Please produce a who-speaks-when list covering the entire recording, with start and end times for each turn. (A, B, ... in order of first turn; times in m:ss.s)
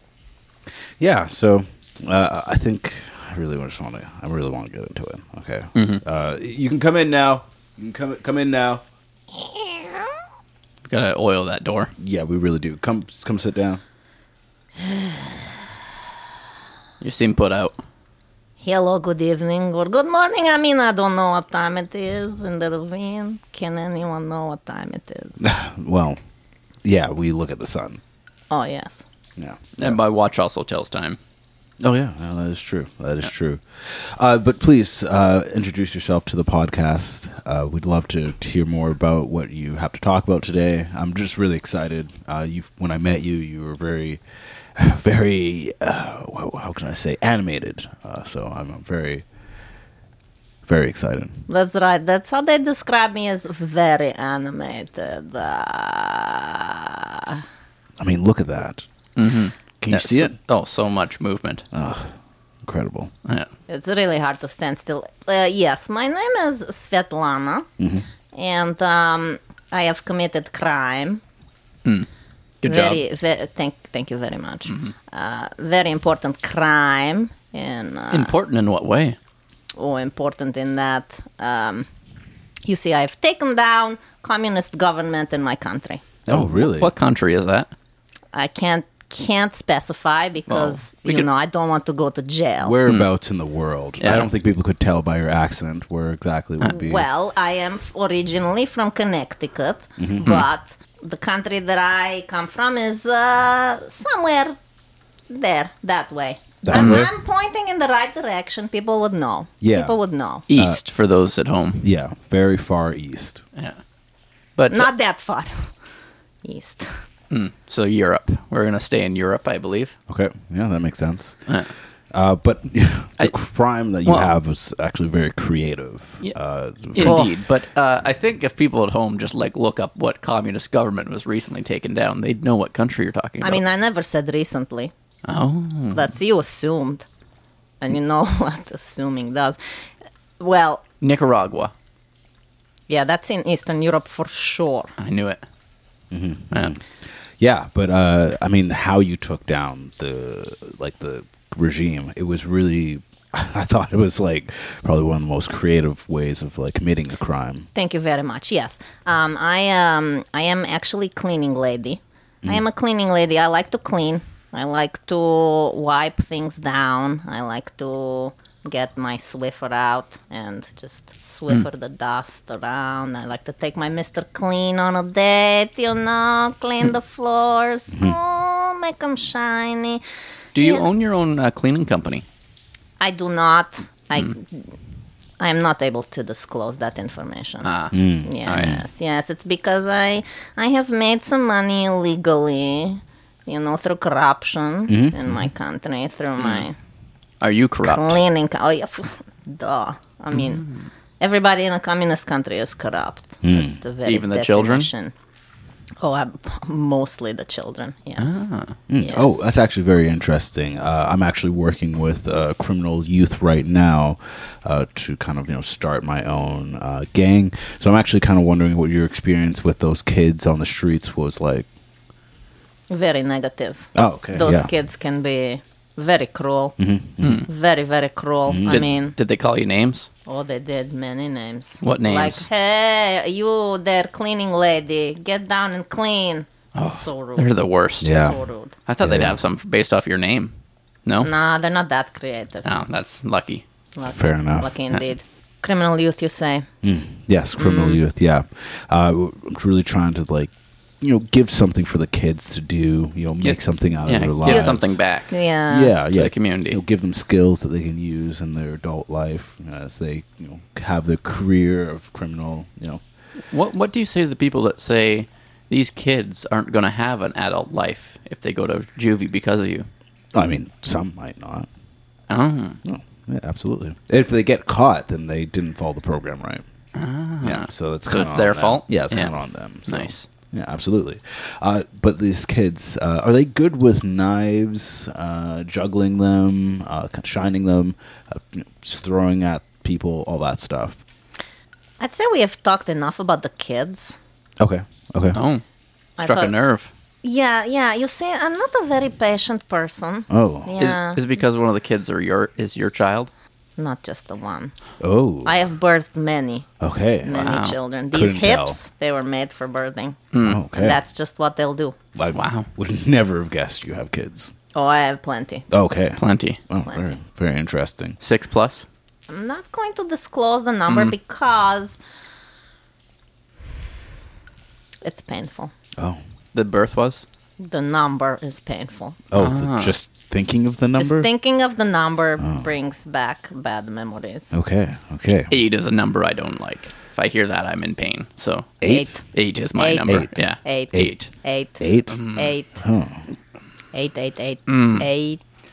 0:01.0-0:08.8 A
0:05.7-0:06.0 B
0:09.4-0:10.1 C
0:10.8-0:11.9 B
0:12.0-0:13.8 A
0:17.0-0:17.8 B
0:18.6-0:25.5 C
0:25.4-0:26.2 A
0:26.8-0:28.0 A
0:28.5-0:29.0 C
0:29.4-0:30.0 A
0:29.8-0:31.2 B
0:31.8-0:44.2 A
0:44.7-0:49.2 A
0:50.6-0:51.5 A
0:51.5-0:57.4 C
0:58.0-0:58.8 A
0:59.2-1:01.6 B
0:59.8-1:00.3 A
1:01.7-1:03.1 A
1:03.7-1:07.7 C
1:07.8-1:08.0 A
1:08.3-1:11.2 C
1:12.6-1:13.0 B
1:12.6-1:18.3 C
1:14.7-1:14.9 B
1:18.1-1:19.2 B
1:19.8-1:21.9 C
1:22.6-1:26.0 C
1:26.2-1:26.9 A
1:26.3-1:27.7 B
1:28.3-1:32.8 C
1:30.5-1:31.3 B
1:32.6-1:37.1 A
1:34.0-1:34.3 B
1:36.7-1:44.6 C
1:40.0-1:40.3 A
1:45.3-1:50.4 C
1:46.6-1:47.1 A
1:46.7-1:47.1 B
1:49.6-1:50.0 A
1:50.5-1:51.9 B
1:50.5-1:50.8 A
1:51.8-1:53.4 A
1:54.6-1:54.9 B
1:54.7-1:55.7 C
1:56.4-1:57.0 C
1:57.3-1:59.9 B
2:00.1-2:01.6 A
2:02.1-2:07.4 A
2:04.0-2:04.3 B
2:06.9-2:13.6 B
2:07.0-2:07.3 C
2:13.4-2:14.9 C
2:15.2-2:16.1 B
2:15.9-2:17.0 C
2:17.8-2:19.6 C
2:20.4-2:20.8 C
2:21.0-2:21.7 B
2:22.9-2:24.9 C
2:25.0-2:25.4 B
2:26.1-2:37.7 A
2:37.7-3:00.0 C
2:57.9-2:58.2 A
3:00.5-3:02.2 B
3:00.6-3:00.9 C
3:03.0-3:04.7 C
3:05.4-3:07.7 C
3:07.6-3:08.8 B
3:07.9-3:08.8 A
3:08.2-3:16.8 C
3:14.9-3:15.5 A
3:16.4-3:16.6 B
3:17.4-3:18.2 B
3:17.8-3:20.6 C
3:20.3-3:20.9 B
3:21.2-3:25.1 C
3:23.4-3:23.8 A
3:24.0-3:24.9 B
3:26.0-3:28.4 C
3:28.2-3:28.8 B
3:28.9-3:41.7 A
3:29.0-3:29.4 C
3:42.9-3:46.8 C
3:43.9-3:44.7 A
3:46.8-3:47.4 A
3:47.2-3:47.5 B
3:47.4-3:49.2 C
3:48.5-3:48.8 A
3:48.6-3:50.1 B
3:50.2-3:57.5 C
3:51.8-3:52.4 B
3:56.7-3:58.2 B
3:58.0-3:58.4 A
3:58.0-3:58.7 C
3:58.8-4:00.5 B
3:59.0-3:59.4 A
4:01.2-4:02.7 C
4:02.6-4:03.6 B
4:04.0-4:06.6 C
4:04.1-4:04.7 A
4:06.8-4:15.0 A
4:07.6-4:08.0 C
4:13.4-4:15.3 B
4:14.4-4:15.9 C
4:15.7-4:23.0 A
4:16.1-4:16.8 B
4:23.5-4:29.9 B
4:30.3-4:31.7 A
4:32.3-4:32.8 B
4:32.8-4:36.6 A
4:36.9-4:39.3 B
4:37.4-4:51.0 A
4:39.9-4:40.2 B
4:52.0-4:54.2 C
4:54.6-4:55.4 A
4:55.3-4:55.6 B
4:56.2-4:56.5 C
4:56.2-4:56.9 B
4:57.2-5:01.2 C
5:00.3-5:00.8 A
5:00.8-5:03.3 B
5:03.8-5:04.7 C
5:05.0-5:05.6 A
5:05.4-5:06.7 C
5:06.8-5:07.6 A
5:07.2-5:10.2 C
5:07.4-5:07.8 B
5:08.1-5:08.8 A
5:10.3-5:10.6 B
5:10.4-5:11.0 A
5:10.7-5:12.0 C
5:12.1-5:14.5 A
5:12.3-5:12.7 B
5:14.7-5:15.6 C
5:15.7-5:18.2 A
5:16.2-5:16.6 B
5:16.8-5:17.1 C
5:18.2-5:18.8 B
5:19.3-5:22.0 C
5:20.9-5:21.1 B
5:25.0-5:25.7 C
5:26.5-5:27.2 B
5:27.6-5:29.2 C
5:29.3-5:31.3 A
5:29.3-5:30.0 B
5:31.0-5:34.6 C
5:32.4-5:32.7 A
5:34.5-5:35.5 A
5:35.5-5:41.3 B
5:38.8-5:39.2 A
5:38.8-5:39.2 C
5:39.7-5:42.8 C
5:40.1-5:40.4 A
5:41.8-5:42.2 A
5:42.1-5:42.6 B
5:42.8-5:43.2 A
5:43.9-5:45.4 C
5:44.7-5:45.1 B